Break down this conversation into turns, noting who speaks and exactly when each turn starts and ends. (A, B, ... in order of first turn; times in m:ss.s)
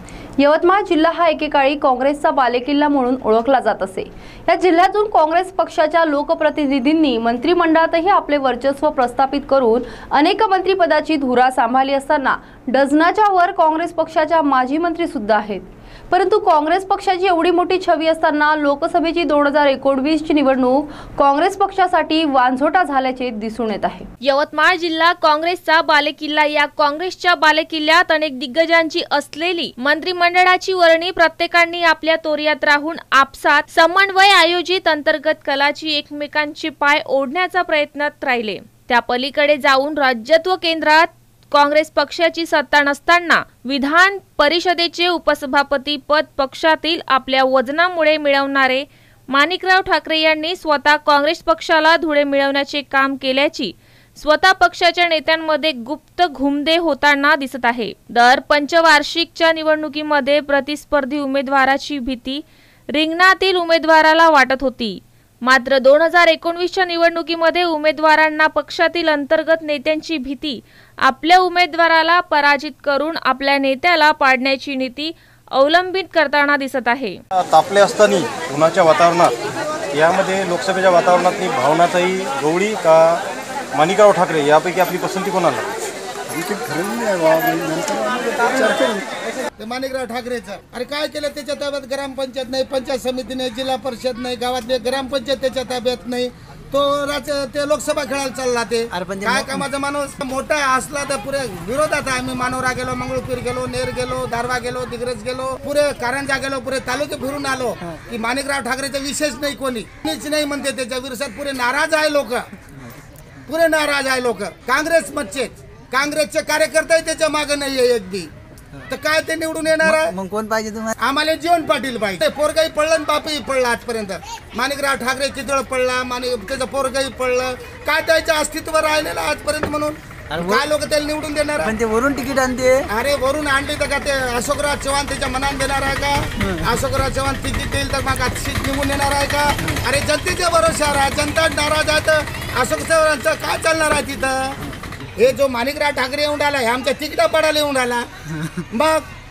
0:00.4-0:24.1 A
0:24.2-1:17.2 B
1:17.5-1:19.3 C
1:19.9-1:23.2 C
1:23.7-1:25.7 C
1:26.3-1:28.5 D
1:29.6-1:52.5 E
1:38.9-1:39.3 F
1:53.5-1:58.3 E
1:58.9-2:00.1 E
1:59.8-2:00.9 F
2:01.0-2:11.8 E
2:11.6-2:12.8 F
2:12.9-2:24.6 E
2:25.2-2:28.1 E
2:28.7-2:29.0 E